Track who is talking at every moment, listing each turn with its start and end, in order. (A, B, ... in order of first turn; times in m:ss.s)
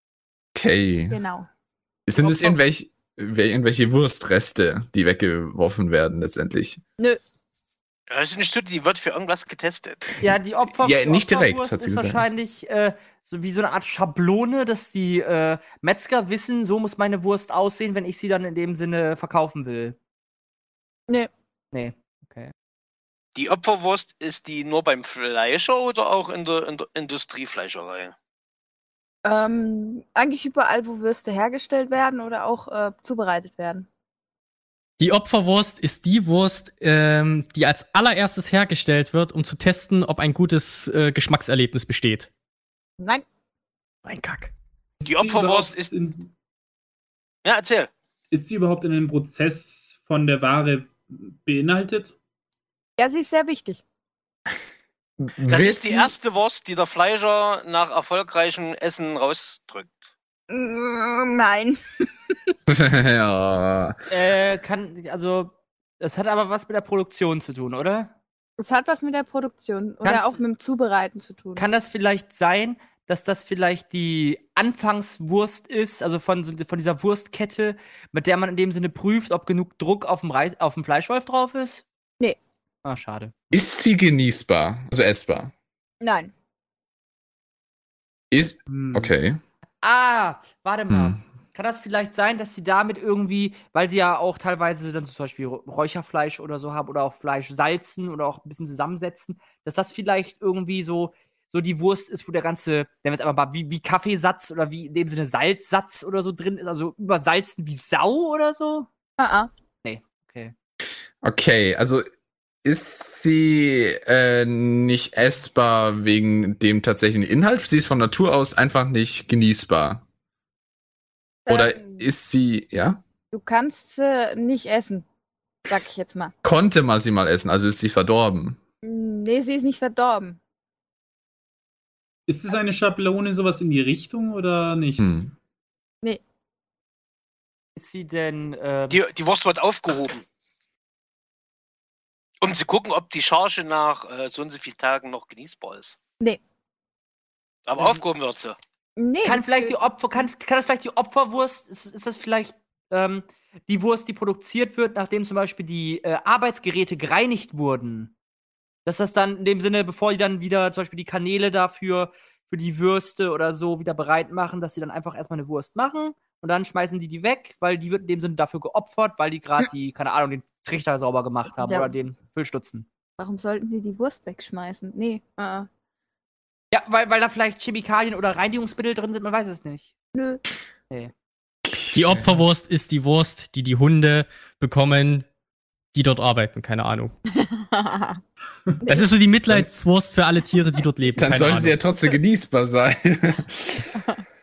0:00.5-0:01.2 A
0:01.1-0:01.5 B
0:02.1-0:06.8 A
0:02.2-0:02.6 C
0:08.1-0:10.1 D
0:10.2-0:20.0 C
0:10.8-0:12.2 A
0:21.7-0:22.5 C
0:23.3-0:28.1 D
0:29.2-0:33.9 B
0:35.0-0:42.3 E
0:44.0-0:44.5 E
0:45.0-0:46.3 F
0:45.0-0:45.9 D
0:47.4-0:47.9 D
0:48.3-0:52.1 F
0:53.0-0:53.8 B
0:55.2-0:56.1 A
0:55.5-1:00.1 D
1:00.5-1:01.8 B
1:02.7-1:04.0 A
1:04.1-1:08.1 C
1:08.6-1:11.6 B
1:10.0-1:10.4 C
1:11.6-1:21.8 C
1:22.8-1:23.3 C
1:23.5-1:25.5 A
1:26.0-1:26.3 B
1:28.3-1:29.4 A
1:28.7-1:29.1 F
1:29.8-1:48.9 C
1:30.9-1:31.2 A
1:49.2-1:49.5 B
1:49.8-1:50.5 C
1:51.2-1:52.0 A
1:52.6-2:00.0 A
2:01.4-2:02.0 B
2:01.5-2:03.0 A
2:03.3-2:05.0 B
2:05.7-2:06.3 B
2:06.4-2:08.6 A
2:08.8-2:10.4 B
2:12.3-2:15.2 F
2:15.0-2:15.3 A
2:17.8-2:19.0 C
2:18.9-2:20.2 D
2:22.4-2:26.0 D
2:27.6-2:28.6 D
2:29.0-2:29.8 B
2:29.2-2:38.1 C
2:38.8-2:52.8 C
2:51.6-2:51.9 B
2:53.2-2:55.7 B
2:56.7-2:59.9 C
3:00.1-3:00.4 B
3:01.6-3:02.4 A
3:01.9-3:05.2 E
3:05.9-3:07.1 E
3:07.3-3:08.2 B
3:08.9-3:11.8 E
3:11.1-3:13.9 A